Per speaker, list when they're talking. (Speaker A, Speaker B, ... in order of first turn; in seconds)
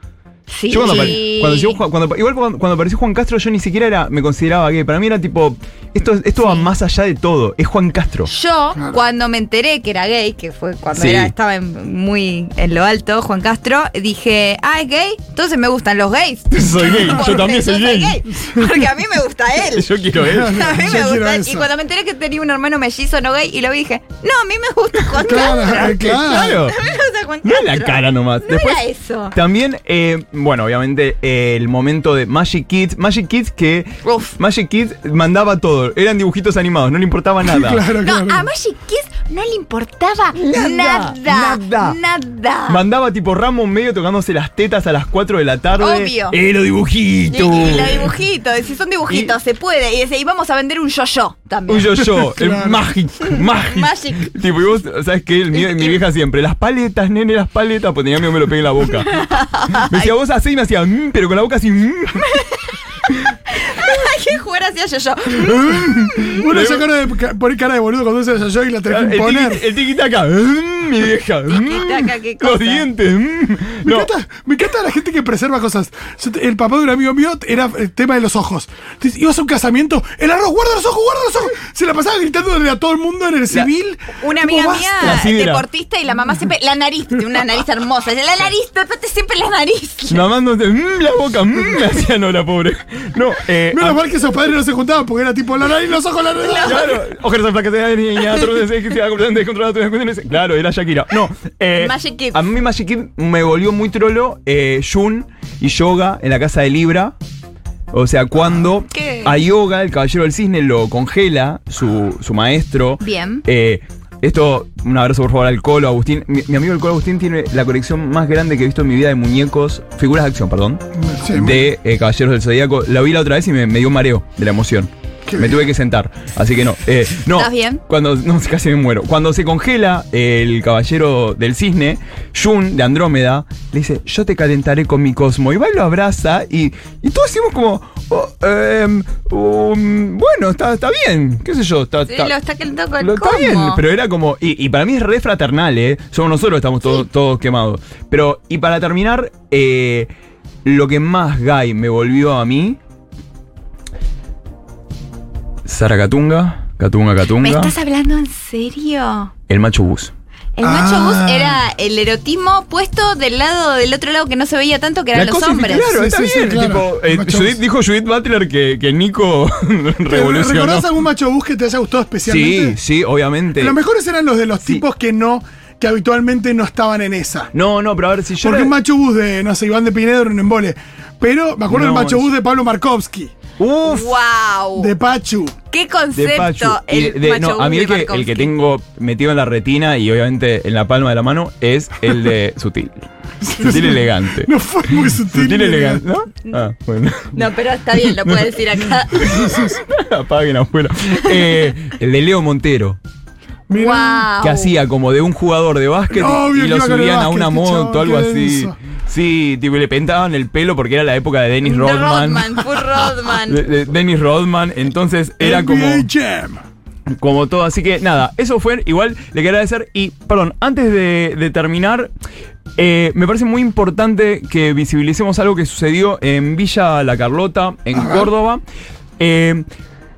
Speaker A: 0.5-1.8, 6.4-6.7, 8.3-29.4, 34.0-34.4, 38.0-42.8, 45.8-46.4, 47.3-52.1, 53.3-54.3, 55.5-56.0, 59.0-60.1, 62.2-62.8, 63.5-66.4, 71.5-72.9, 84.2-90.2, 96.4-97.0, 101.8-102.5, 108.9-109.4, 113.0-113.4, 127.3-127.8, 142.1-143.8, 157.4-159.3, 160.6-165.9, 183.8-184.9, 185.7-188.5, 197.3-199.7, 203.7-204.7, 211.6-213.6
Speaker B: 0.7-8.3, 10.9-11.3, 16.5-18.2, 19.7-20.8, 25.4-26.8, 27.4-37.8, 40.3-42.0, 42.7-48.1, 49.1-49.3, 51.7-62.3, 63.1-63.4, 65.3-66.9, 68.9-74.1, 85.0-85.6, 90.1-94.0, 96.6-107.1, 107.9-142.3, 143.0-150.1, 150.6-152.8, 155.6-157.7, 159.5-160.1, 165.1-170.9, 172.2-173.8, 177.5-178.8, 181.7-182.3, 183.6-184.2, 186.1-197.4, 198.2-198.5, 199.2-203.0, 204.4-212.6, 213.4-216.1, 217.1-222.1, 222.8-228.6, 229.2-229.7
Speaker C: 0.8-1.1, 16.9-17.2, 20.1-21.7, 25.2-26.6, 37.4-38.5, 52.1-52.8, 66.2-69.6, 73.8-85.1, 93.7-96.8, 120.9-121.7, 125.2-125.7, 160.6-161.6, 165.7-167.6, 170.1-172.8, 173.6-177.5, 178.4-183.3, 184.7-185.6, 193.4-196.0, 203.7-204.3, 206.1-208.8, 215.4-216.6, 227.9-228.3